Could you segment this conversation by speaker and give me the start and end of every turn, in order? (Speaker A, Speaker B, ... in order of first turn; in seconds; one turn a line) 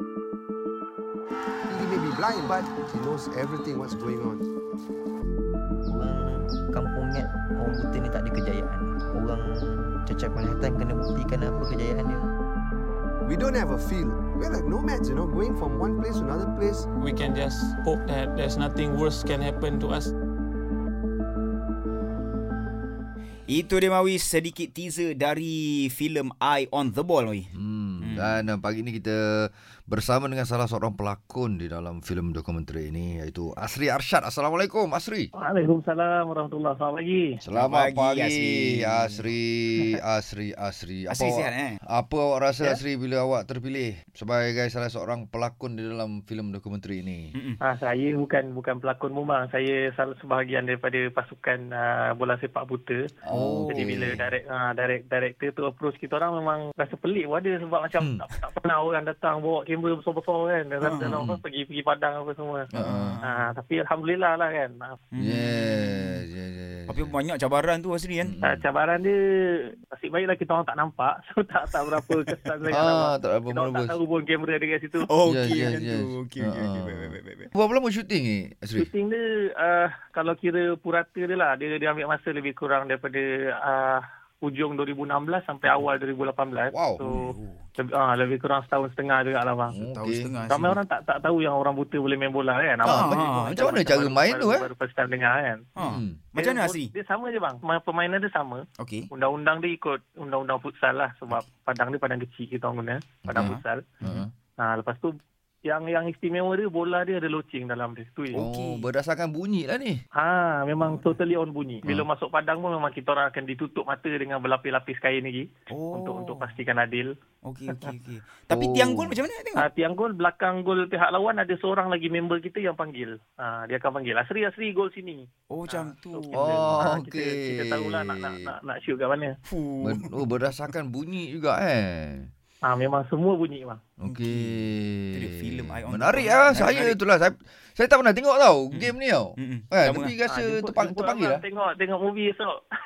Speaker A: 1.7-4.5
Speaker B: 5.9-12.3
Speaker A: 13.2-16.9
Speaker C: 17.0-20.1
Speaker D: 23.5-28.4
Speaker E: 27.5-35.3
Speaker F: 35.3-37.4
Speaker E: 37.4-47.3
Speaker D: 37.5-39.2
Speaker D: 41.1-41.8
Speaker F: 47.6-53.0
Speaker E: 53.3-54.3
Speaker D: 53.3-54.1
Speaker F: 53.7-62.7
Speaker E: 58.0-58.2
Speaker D: 60.8-61.3
Speaker E: 62.7-63.2
Speaker D: 62.8-63.5
Speaker F: 63.2-65.0
Speaker D: 65.1-66.2
Speaker E: 65.2-67.2
Speaker D: 66.9-68.3
Speaker E: 68.2-68.6
Speaker F: 68.4-75.0
Speaker E: 72.7-74.0
Speaker D: 75.0-77.5
Speaker E: 75.2-78.9
Speaker F: 78.8-87.2
Speaker E: 86.7-87.1
Speaker D: 87.0-87.6
Speaker F: 87.8-89.8
Speaker E: 89.7-90.3
Speaker D: 89.8-90.8
Speaker F: 90.5-95.6
Speaker D: 92.8-93.9
Speaker E: 92.8-94.7
Speaker D: 95.8-96.9
Speaker E: 95.8-96.2
Speaker F: 96.3-103.8
Speaker D: 98.8-99.1
Speaker E: 103.2-104.3
Speaker D: 103.3-104.2
Speaker F: 104.6-105.1
Speaker F: 105.7-108.4
Speaker D: 108.3-108.9
Speaker E: 108.3-110.0
Speaker F: 110.2-117.1
Speaker D: 110.8-111.1
Speaker D: 115.7-116.6
Speaker D: 117.4-119.7
Speaker E: 118.5-119.2
Speaker F: 119.6-129.3
Speaker D: 125.5-126.8
Speaker E: 126.3-128.5
Speaker D: 129.4-130.3
Speaker E: 129.8-132.3
Speaker F: 132.7-133.8
Speaker E: 134.0-141.4
Speaker D: 134.0-137.0
Speaker D: 138.7-140.1
Speaker F: 140.2-142.6